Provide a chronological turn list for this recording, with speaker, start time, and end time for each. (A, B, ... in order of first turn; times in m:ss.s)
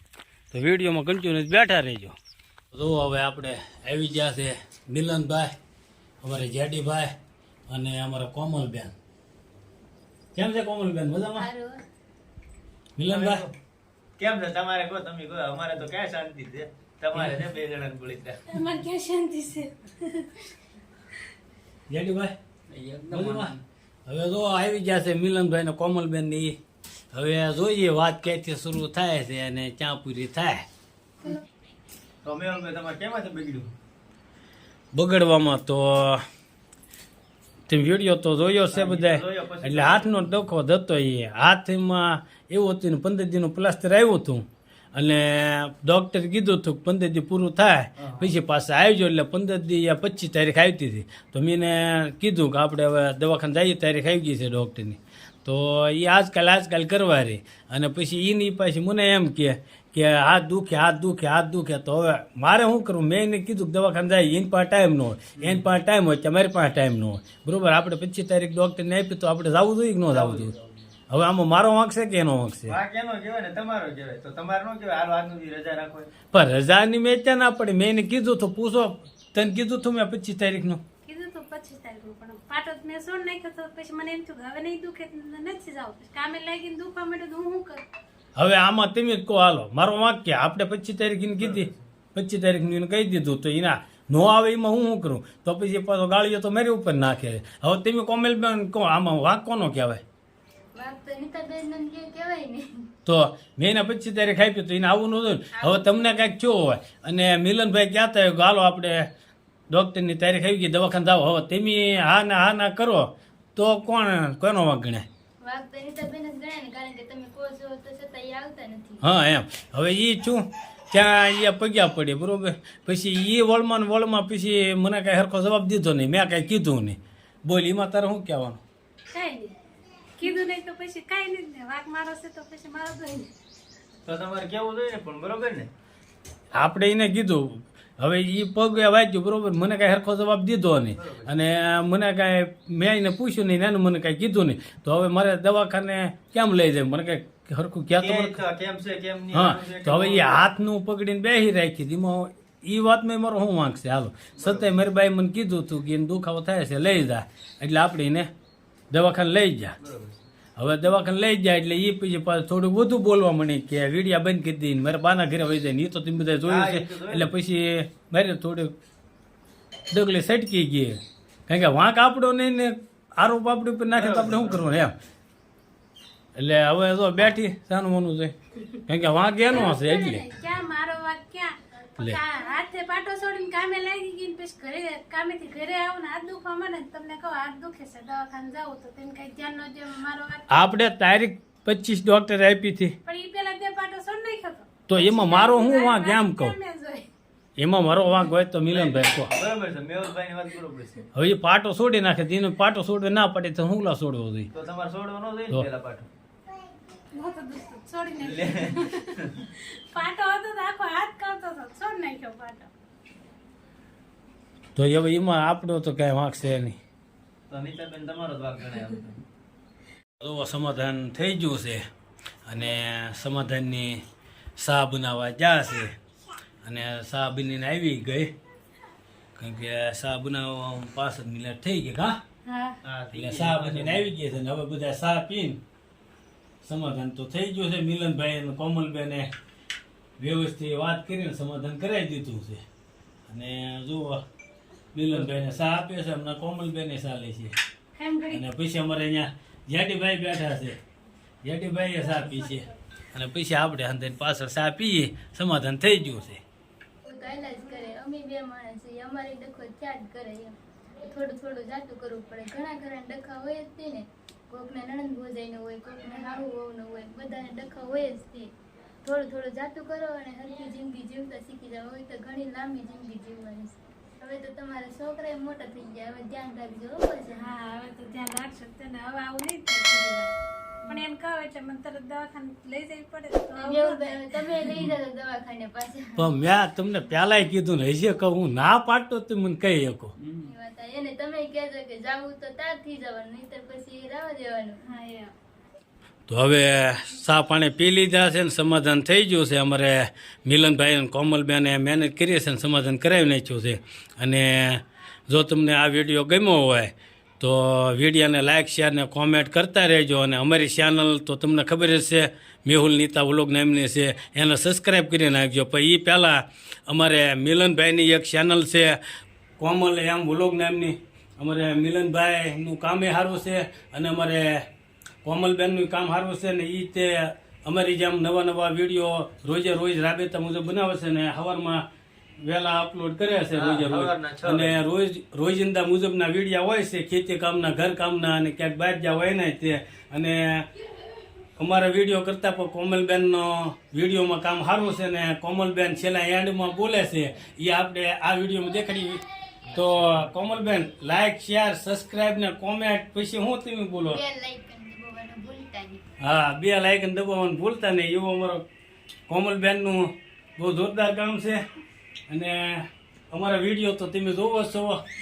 0:00.5-0:02.2 A
0:02.7-0:05.6 A
0:06.2-0:07.2 A
0:07.7-0:08.9 A
0:10.4-0:11.5 A
0:11.4-0:11.8 B
0:13.0-0:13.4 A
0:13.1-0:13.5 C
0:14.2-0:18.4 C
0:17.1-0:17.4 A
0:18.5-0:20.4 D
0:21.9-0:22.4 A
0:22.7-0:23.6 C
0:23.1-0:26.6 A
0:27.1-0:30.6 A
0:32.2-0:33.7 C
0:34.9-0:36.2 A
0:37.7-1:10.5 A
0:38.7-0:40.2 C
0:48.0-0:48.3 C
1:05.4-1:05.6 C
1:10.1-1:10.8 C
1:11.1-1:12.8 A
1:12.7-1:16.1 C
1:16.3-1:20.8 A
1:21.0-1:27.8 D
1:28.4-1:40.0 A
1:31.4-1:31.7 C
1:40.8-1:42.8 B
1:43.1-1:49.1 A
1:45.6-1:46.2 B
1:49.7-1:55.1 A
1:55.4-1:59.0 B
1:59.0-2:08.6 A
2:09.1-2:09.6 D
2:10.2-2:13.3 D
2:14.0-2:15.7 C
2:16.5-2:28.4 A
2:21.0-2:21.3 C
2:28.0-2:30.4 C
2:29.3-2:38.3 A
2:34.4-2:34.7 C
2:38.9-2:39.8 A
2:39.8-2:40.2 C
2:40.6-2:48.7 A
2:46.4-2:47.3 C
2:49.9-2:54.9 A
2:53.9-2:54.7 C
2:56.4-2:58.3 A
2:58.9-3:00.2 A
2:59.5-3:10.7 D
3:10.5-3:13.0 A
3:13.0-3:17.1 D
3:14.9-3:16.6 A
3:17.6-3:19.3 A
3:18.7-3:21.0 C
3:21.1-3:24.5 A
3:24.5-3:26.1 C
3:27.1-3:32.7 D
3:28.2-3:29.4 C
3:34.8-3:36.8 A
3:37.5-3:39.2 C
3:40.2-3:41.8 A
3:42.5-3:44.0 A
3:44.6-3:45.9 A
3:46.6-3:48.3 A
3:49.4-3:52.2 A
3:52.5-3:52.8 D
3:52.8-3:54.1 C
3:53.1-3:55.6 A
3:56.6-3:59.3 A
4:00.2-4:02.6 A
4:03.3-4:04.2 A
4:04.9-4:07.5 A
4:08.0-4:08.4 D
4:08.3-4:10.8 A
4:11.4-4:16.4 A
4:12.2-4:12.7 D
4:17.1-4:28.5 B
4:29.0-4:37.5 B
4:37.4-4:40.3 D
4:40.9-4:44.7 D
4:43.6-4:46.3 B
4:46.2-4:50.1 A
4:50.4-4:54.8 B
4:54.8-4:55.3 D
4:56.3-5:19.0 A
5:19.6-5:24.7 A
5:25.2-5:31.8 A
5:32.4-5:40.7 A
5:33.5-5:34.8 C
5:41.6-5:54.2 A
5:54.1-5:56.0 B
5:56.2-5:58.6 A
5:59.3-6:01.6 A
6:02.3-6:05.0 A